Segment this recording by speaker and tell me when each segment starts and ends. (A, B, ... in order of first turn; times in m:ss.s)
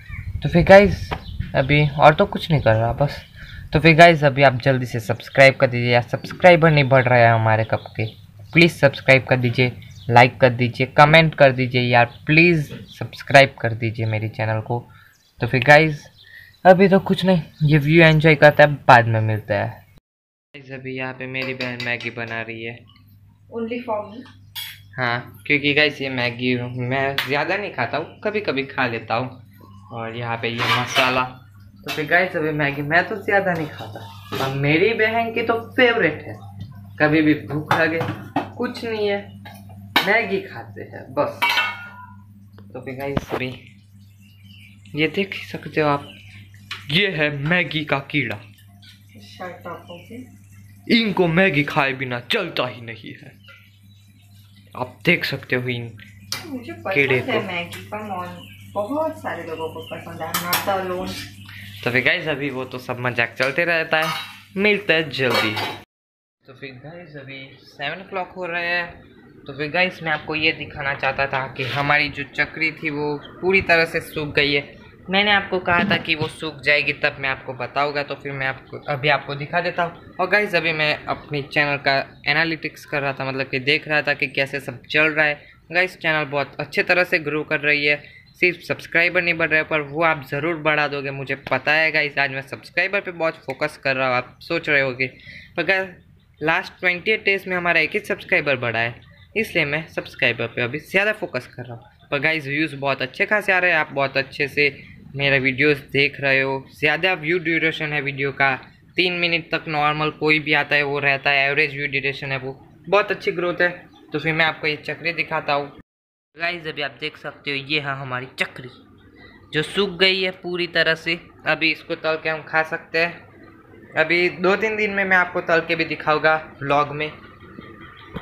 0:00.4-0:16.1 A
0:16.6-0:19.8 A
0:20.5-0:22.8 A
0:23.5-0:24.2 B
0:24.9-0:29.4 A
0:29.9-0:36.4 A
0:37.0-0:39.3 A
0:40.0-0:41.4 A
0:42.7-0:43.6 A
0:44.9-0:46.1 A
0:46.9-0:48.4 A
0:49.1-0:50.2 B
0:50.9-0:53.3 A
0:54.7-0:55.9 A
0:56.4-1:01.2 B
0:56.9-0:57.5 A
1:01.8-1:05.6 A
1:06.4-1:55.7 A
1:56.3-1:58.8 A
1:59.5-2:03.2 A
2:03.9-2:07.1 A